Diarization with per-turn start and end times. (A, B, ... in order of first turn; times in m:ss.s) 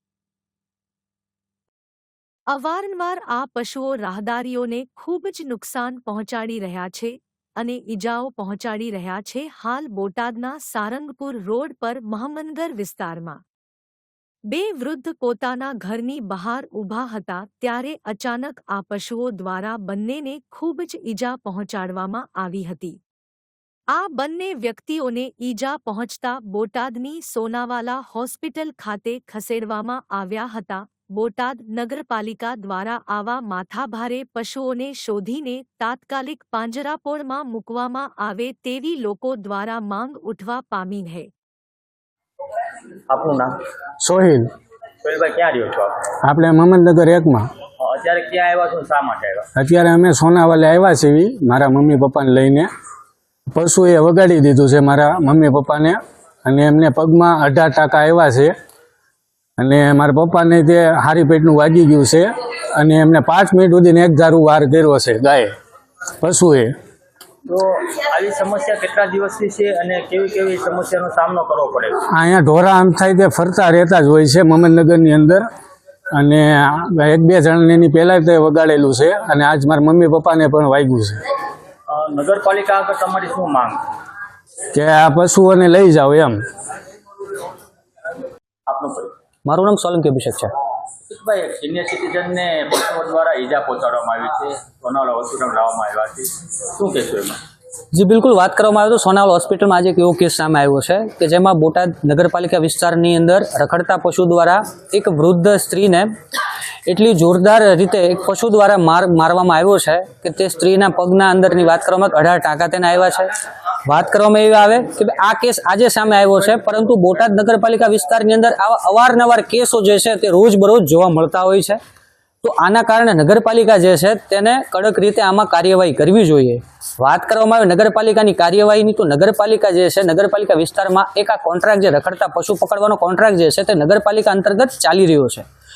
0:02.5-0:13.4 A
0:14.5-0:23.0 A
0:23.9-0:41.3 A
0:43.1-0:43.6 B
0:44.0-0:44.5 C
0:45.0-0:46.0 B
0:46.2-0:47.5 C
0:47.8-0:49.5 B
0:49.6-0:52.7 C
0:53.5-0:58.5 C
0:59.6-1:05.5 C
1:06.2-1:06.7 C
1:07.5-1:12.0 B
1:12.1-1:15.4 C
1:16.1-1:21.2 C
1:21.9-1:23.8 B
1:24.7-1:26.4 C
1:28.7-1:29.1 B
1:29.5-1:30.5 D
1:31.1-1:37.4 B
1:37.9-1:46.1 D
1:46.9-2:01.8 D
2:02.4-2:15.5 D